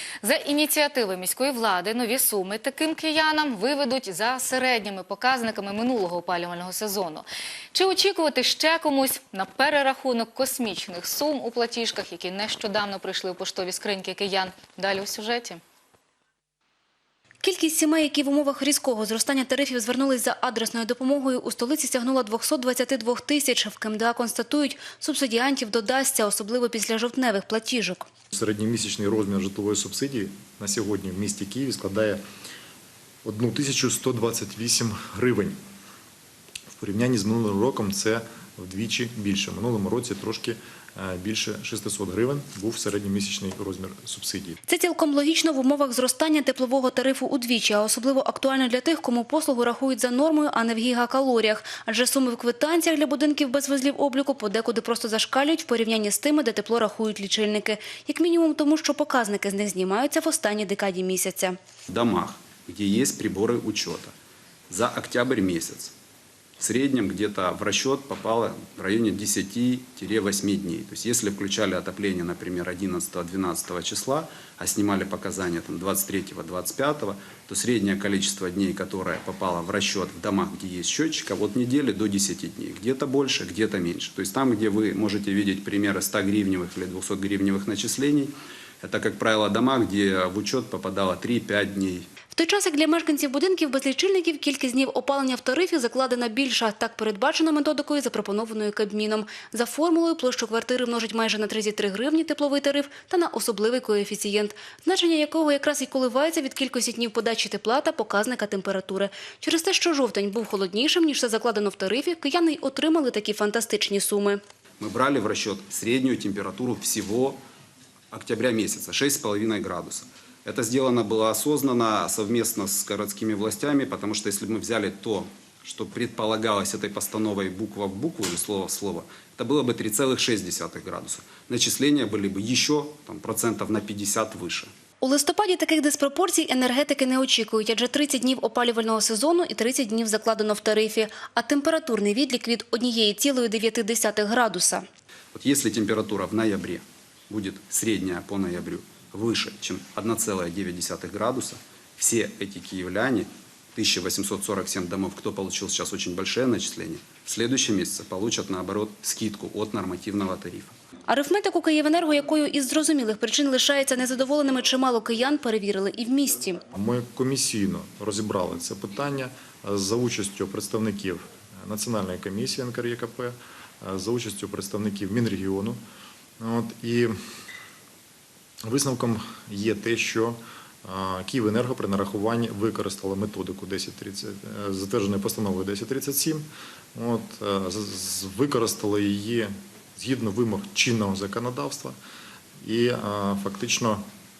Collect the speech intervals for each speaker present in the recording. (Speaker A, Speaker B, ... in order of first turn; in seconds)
Speaker A: 0.2-15.6
Speaker B: 17.4-28.1, 44.7-61.6, 92.3-114.4, 135.0-144.8, 161.1-166.6
Speaker C: 28.3-32.2, 33.2-35.6, 36.8-44.6, 166.7-175.8, 176.4-177.1, 178.7-192.0, 192.6-194.0
Speaker D: 61.9-64.1, 64.7-65.9, 66.6-92.1, 114.8-117.4, 118.1-134.7, 145.3-160.8